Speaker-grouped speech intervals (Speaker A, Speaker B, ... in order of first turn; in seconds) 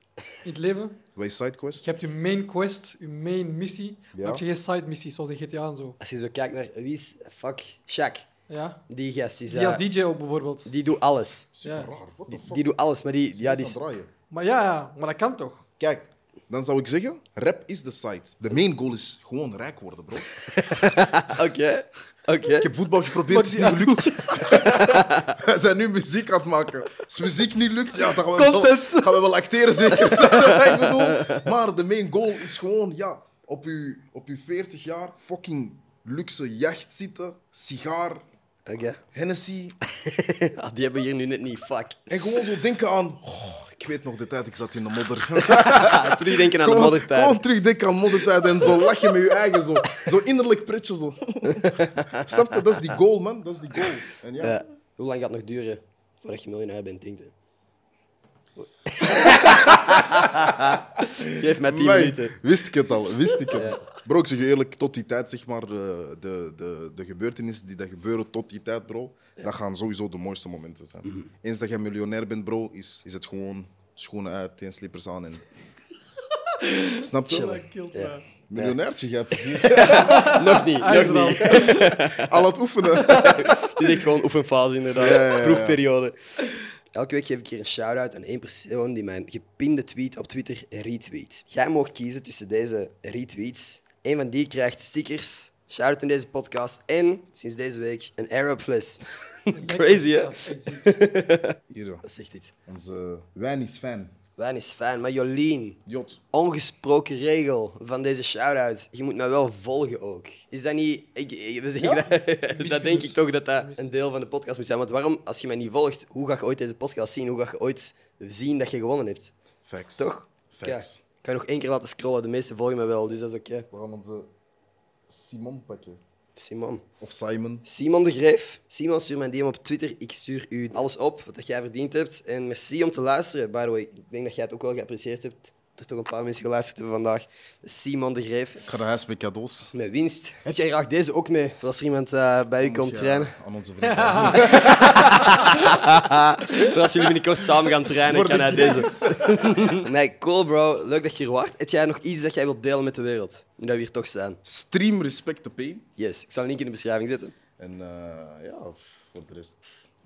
Speaker A: 0.4-1.0, 1.8-6.0, 8.5-8.8, 9.5-10.7, 11.6-11.9, 14.3-15.6, 23.2-24.6, 28.1-29.2, 29.9-30.3, 76.5-78.2, 79.9-82.0, 82.9-83.9, 99.5-100.9, 111.8-113.8, 143.9-145.6
Speaker B: 1.1-2.0, 4.1-4.4, 11.5-12.7, 13.3-14.1, 15.8-21.0, 22.5-38.2, 39.1-39.8, 42.1-54.6, 59.2-60.2, 61.0-75.4, 77.0-77.7, 78.5-83.7, 84.9-85.8, 101.7-102.0, 102.7-104.1, 105.9-106.2, 119.6-121.0, 123.7-124.3, 125.1-126.0, 127.0-127.6, 138.6-139.7, 142.6-145.4, 148.0-149.9, 154.4-155.9, 157.6-159.6
Speaker C: 6.0-8.3, 8.9-9.8, 10.7-11.5, 12.3-13.8, 20.4-22.7, 24.4-25.4, 30.7-31.4, 38.6-39.0, 39.9-42.4, 45.4-47.4, 51.4-52.6, 54.4-57.3, 58.9-62.4, 63.5-63.8, 77.3-78.8, 79.5-82.4, 83.1-86.2, 86.9-102.5, 104.4-105.8, 106.3-119.3, 120.0-123.7, 126.4-126.8, 127.6-138.7, 139.7-143.3, 144.3-154.4, 156.0-157.3